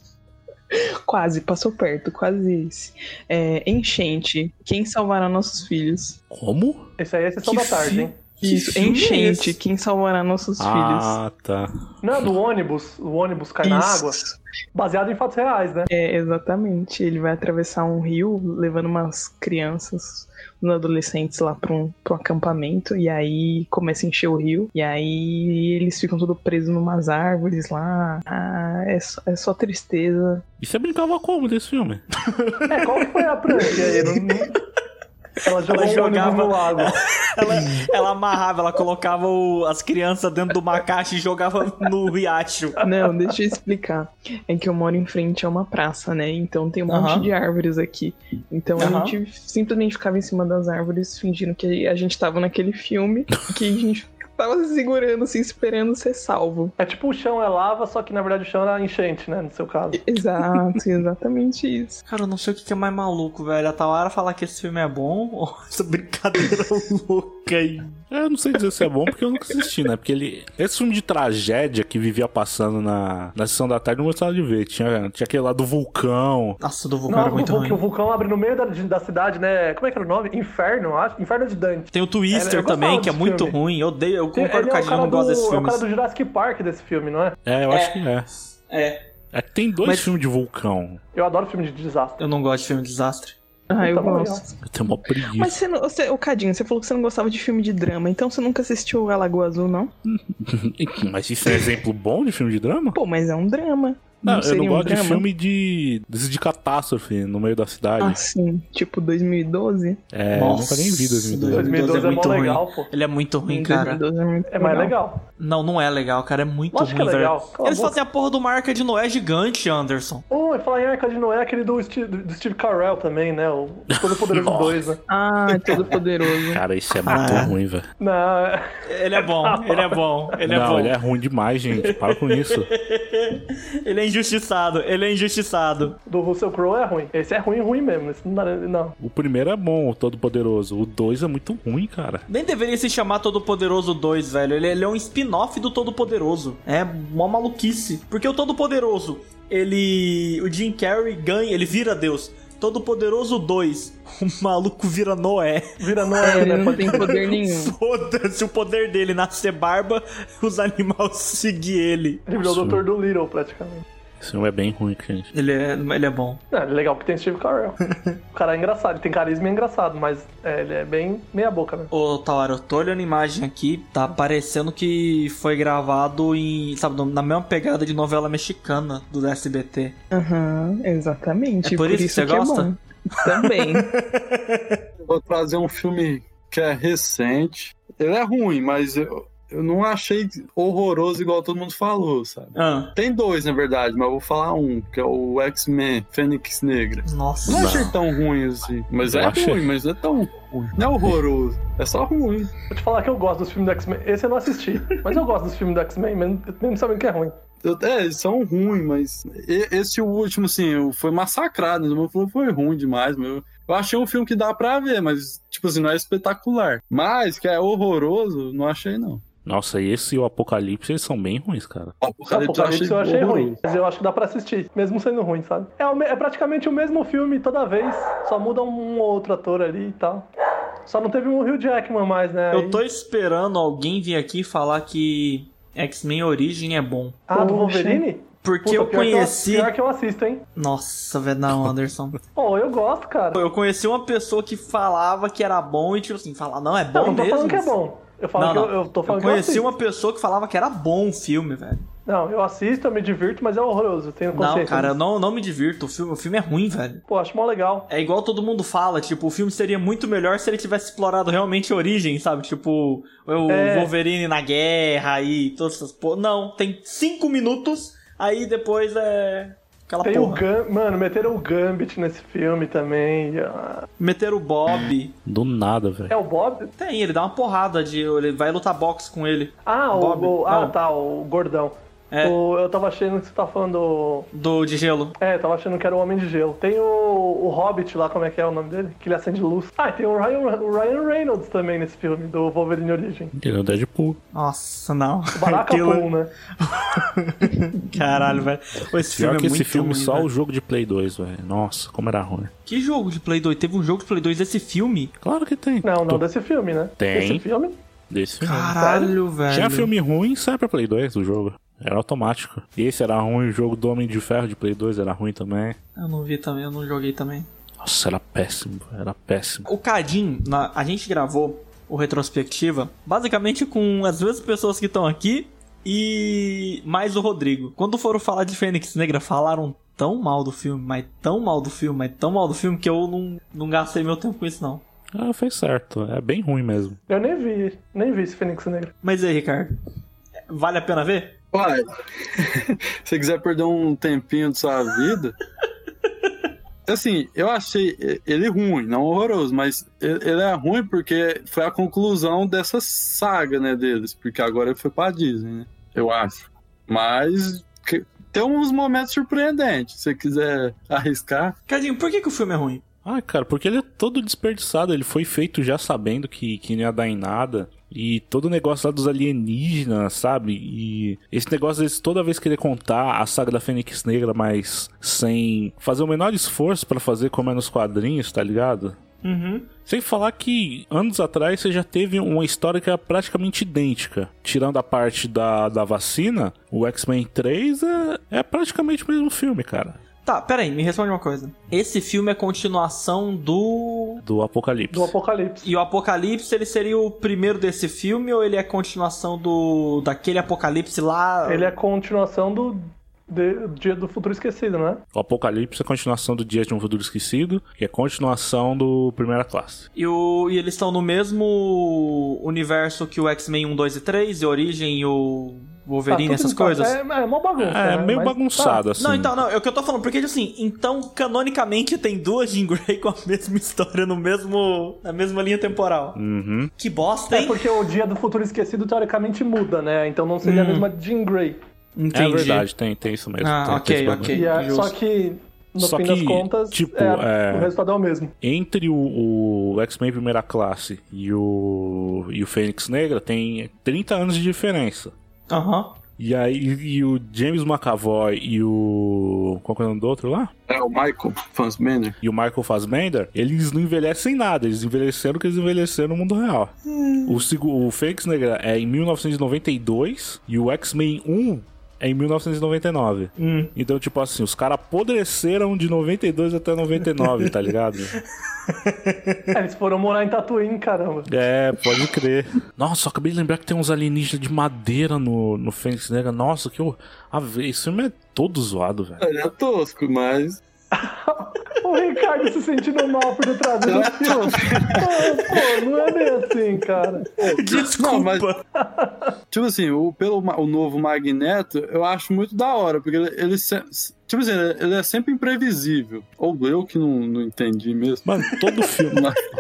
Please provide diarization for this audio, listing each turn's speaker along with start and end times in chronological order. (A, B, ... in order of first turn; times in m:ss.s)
0:00.7-0:06.2 A
0:06.3-0:06.9 B
0:07.0-0:08.2 C
0:07.5-0:07.8 D
0:07.8-0:11.2 A
0:08.4-0:09.6 D
0:10.6-0:12.2 B
0:12.0-0:14.2 C
0:13.6-0:14.4 A
0:14.7-0:15.9 C
0:15.9-0:30.4 A
0:30.6-0:32.0 B
0:32.3-0:34.2 D
0:32.7-0:34.5 C
0:35.4-0:37.0 C
0:35.7-0:42.8 D
0:42.8-0:56.7 A
0:46.9-0:47.3 D
0:48.8-0:49.2 D
0:56.8-1:00.0 C
0:59.9-1:02.0 A
1:02.1-1:08.0 D
1:08.1-1:16.6 B
1:16.6-1:17.8 D
1:17.1-1:23.6 C
1:21.9-1:25.8 D
1:24.4-1:27.4 C
1:27.5-1:28.3 B
1:27.7-1:28.0 D
1:28.7-1:29.0 D
1:29.3-1:31.0 B
1:29.8-1:30.1 D
1:31.2-1:32.2 C
1:32.2-1:33.4 D
1:33.7-1:34.6 A
1:33.8-1:34.4 C
1:34.6-1:35.6 B
1:35.3-1:39.9 A
1:40.0-1:43.0 B
1:42.9-1:45.3 A
1:44.2-1:48.2 B
1:48.0-1:50.0 A
1:50.1-1:51.7 B
1:50.3-1:54.0 D
1:51.5-1:52.9 C
1:53.5-1:55.0 A
1:54.5-1:55.2 C
1:55.4-2:00.2 D
1:56.7-1:58.0 C
2:00.3-2:05.0 C
2:03.9-2:04.8 B
2:05.1-2:06.6 A
2:06.5-2:07.9 B
2:07.1-2:07.5 D
2:08.0-2:10.0 C
2:08.9-2:11.0 D
2:10.5-2:12.7 B
2:11.8-2:16.0 D
2:16.1-2:19.0 C
2:19.0-2:22.3 B
2:22.3-2:42.3 D
2:35.8-2:37.2 C
2:36.2-2:37.8 A
2:42.3-2:43.8 C
2:42.4-2:42.8 B
2:44.2-2:45.3 B
2:45.3-2:46.4 D
2:46.5-2:47.8 C
2:48.3-2:51.9 C
2:51.9-3:00.0 D
3:00.1-3:03.9 A
3:01.6-3:02.7 D
3:03.2-3:04.8 D
3:05.1-3:22.5 E
3:12.6-3:12.9 D
3:17.1-3:17.9 D
3:17.5-3:17.9 B
3:19.1-3:19.7 B
3:22.7-3:27.3 C
3:27.6-3:39.2 E
3:39.4-3:42.0 B
3:42.0-3:43.6 E
3:42.3-3:50.3 C
3:50.9-3:52.8 C
3:52.5-3:57.8 D
3:57.3-4:00.4 C
3:58.4-3:59.7 D
4:00.6-4:02.2 D
4:02.4-4:03.4 C
4:03.3-4:07.7 D
4:06.9-4:09.7 C
4:08.4-4:11.9 D
4:12.1-4:15.0 C
4:14.3-4:17.0 D
4:17.1-4:17.9 C
4:17.9-4:30.4 D
4:23.5-4:23.9 C
4:30.0-4:33.9 C
4:34.0-4:35.2 D
4:35.3-4:36.2 B
4:36.1-4:36.7 C
4:36.8-4:40.8 D
4:39.6-4:44.3 C
4:44.3-4:45.2 D
4:45.2-4:53.3 C
4:53.4-4:54.2 B
4:54.3-5:00.3 D
4:55.3-4:56.3 C
4:59.1-5:02.5 B
5:02.7-5:05.1 D
5:05.2-5:06.2 B
5:05.8-5:07.8 C
5:07.0-5:07.4 B
5:08.1-5:08.8 B
5:08.4-5:09.9 D
5:08.8-5:09.2 C
5:09.5-5:15.8 B
5:16.0-5:17.5 D
5:17.8-5:19.7 B
5:19.7-5:34.8 D
5:35.2-5:37.0 B
5:37.1-5:38.9 C
5:39.0-5:39.7 D
5:40.5-5:41.4 D
5:41.5-5:45.4 E
5:46.9-5:56.4 E
5:56.9-6:01.6 E
6:01.7-6:02.8 D
6:03.0-6:19.0 B
6:19.2-6:19.7 D
6:19.9-6:30.0 B
6:30.2-6:34.2 D
6:34.2-6:35.2 B
6:34.9-6:35.7 C
6:35.6-6:41.7 D
6:41.4-6:45.0 C
6:45.2-6:49.9 B
6:50.0-6:57.0 D
6:56.1-6:58.8 C
6:57.6-6:59.4 B
6:59.0-7:06.2 D
7:06.2-7:06.7 B
7:06.8-7:07.8 D
7:07.3-7:11.6 C
7:10.4-7:10.9 D
7:12.0-7:12.7 D
7:12.1-7:14.4 B
7:13.4-7:14.9 D
7:14.3-7:18.3 C
7:15.8-7:17.7 B
7:18.4-7:25.1 B
7:25.5-7:26.0 D
7:26.2-7:30.5 B
7:30.7-7:32.2 E
7:32.2-7:36.7 B
7:36.9-7:37.3 D
7:37.3-7:48.2 B
7:43.4-7:43.7 D
7:48.7-7:49.5 D
7:49.5-7:51.3 C
7:51.3-7:59.2 B
7:59.2-8:00.6 E
8:01.0-8:07.3 C
8:03.8-8:05.7 E
8:07.4-8:08.5 E
8:07.4-8:08.6 D
8:08.8-8:09.3 C
8:09.5-8:18.3 E
8:18.2-8:19.3 B
8:19.1-8:19.4 E